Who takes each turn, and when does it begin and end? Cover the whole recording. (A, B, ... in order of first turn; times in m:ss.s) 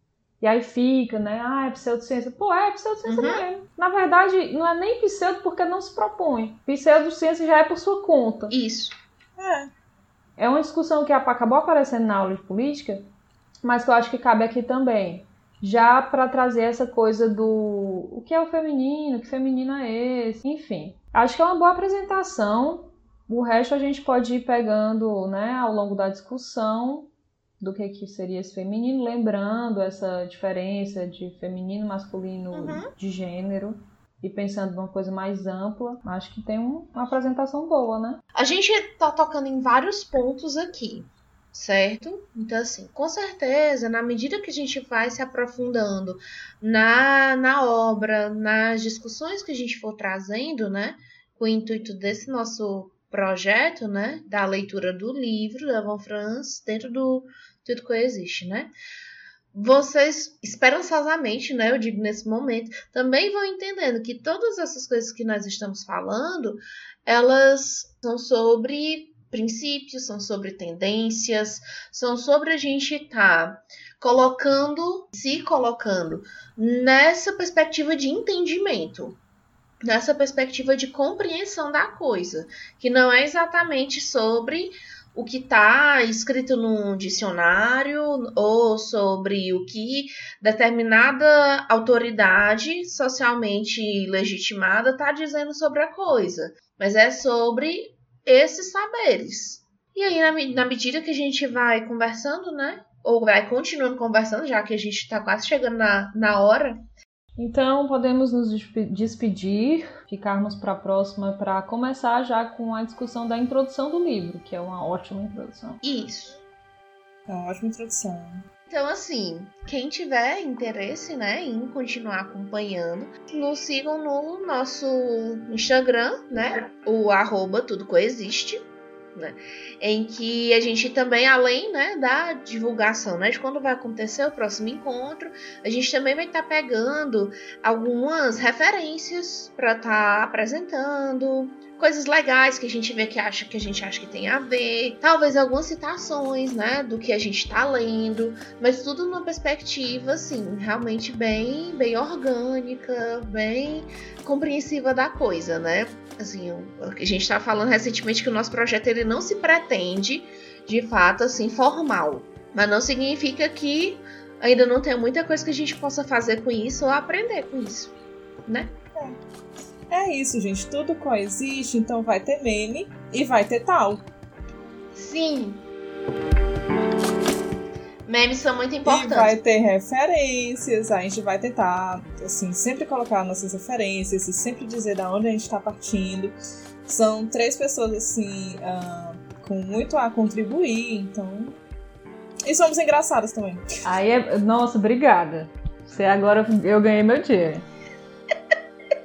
0:00.4-0:08.5 A
0:03.1-0:03.4 B
0:08.5-0:09.0 B
0:09.4-0:09.7 C
0:10.4-0:13.0 A
0:13.6-0:27.1 A
0:27.6-0:38.2 A
0:32.5-0:32.9 B
0:38.4-0:58.7 B
0:59.5-1:19.2 B
1:19.8-1:46.8 B
1:47.4-1:55.8 A
1:55.8-1:56.4 B
1:57.3-1:58.4 C
1:58.7-2:47.9 B
2:48.5-2:48.7 B
2:49.9-2:54.0 C
2:55.0-2:55.6 B
2:58.1-2:59.4 B
2:58.8-3:06.4 C
3:06.9-3:11.6 C
3:12.4-3:13.6 C
3:13.8-3:17.6 A